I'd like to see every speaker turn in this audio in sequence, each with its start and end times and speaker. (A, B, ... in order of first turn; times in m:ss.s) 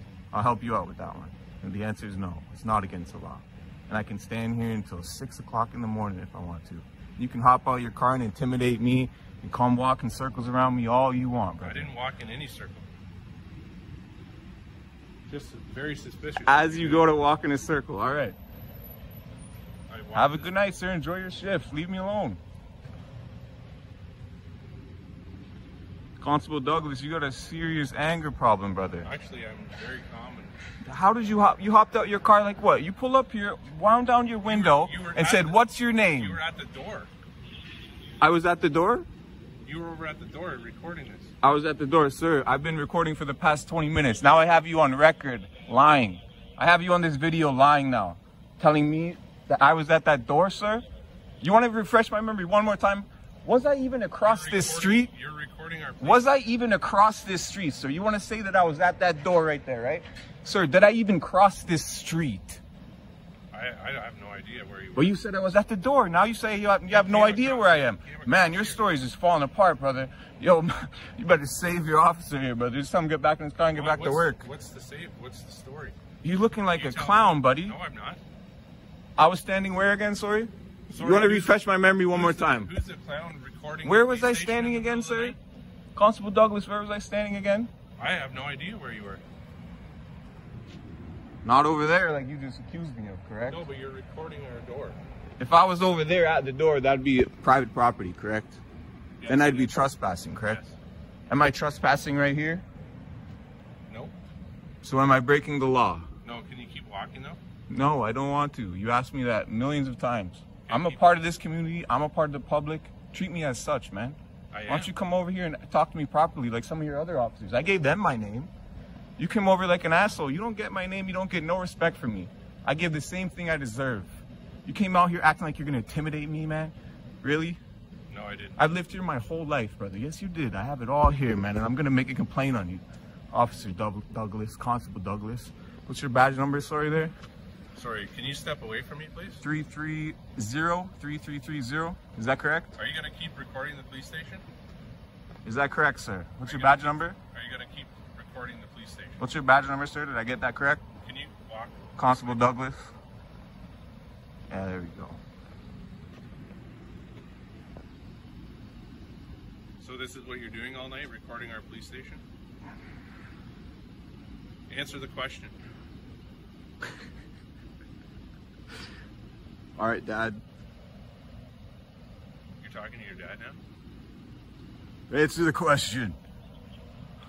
0:00.3-0:11.9 A
0:11.6-0:12.9 B
0:15.3-0:17.2 B
0:16.4-0:18.4 A
0:19.9-0:20.6 B
0:20.1-0:22.4 A
0:26.2-0:29.1 A
0:29.0-0:30.6 B
0:30.8-0:36.4 A
0:34.4-0:37.1 B
0:38.2-0:39.1 A
0:39.6-0:41.3 B
0:41.4-0:50.8 A
0:51.4-0:55.1 A
0:54.2-0:56.3 B
0:56.0-1:02.6 A
1:03.5-1:05.2 B
1:05.0-1:14.5 A
1:06.9-1:08.9 B
1:13.7-1:16.0 B
1:16.2-1:17.8 A
1:16.7-1:18.2 B
1:19.2-1:22.7 A
1:20.9-1:25.4 B
1:23.8-1:25.4 A
1:26.0-1:27.7 A
1:28.0-1:29.2 B
1:31.4-1:33.6 A
1:33.5-1:35.0 B
1:35.4-1:38.6 A
1:39.2-1:39.9 B
1:39.3-1:40.6 A
1:40.4-1:40.8 B
1:41.3-1:42.6 A
1:43.9-1:44.2 B
1:44.8-1:46.1 A
1:46.2-1:47.4 B
1:47.7-1:58.5 A
1:50.7-1:51.2 B
1:54.5-1:54.9 B
1:59.2-2:07.6 A
2:08.1-2:08.6 B
2:08.6-2:17.1 A
2:17.8-2:19.4 B
2:19.4-2:22.7 A
2:22.8-2:24.4 B
2:25.4-2:27.2 A
2:26.4-2:29.3 B
2:29.2-2:30.8 A
2:31.0-2:32.6 B
2:32.0-2:32.9 A
2:34.5-2:35.2 A
2:39.8-2:42.2 B
2:44.7-2:45.6 B
2:49.8-2:50.4 A
2:52.6-2:53.6 B
2:55.1-2:56.2 A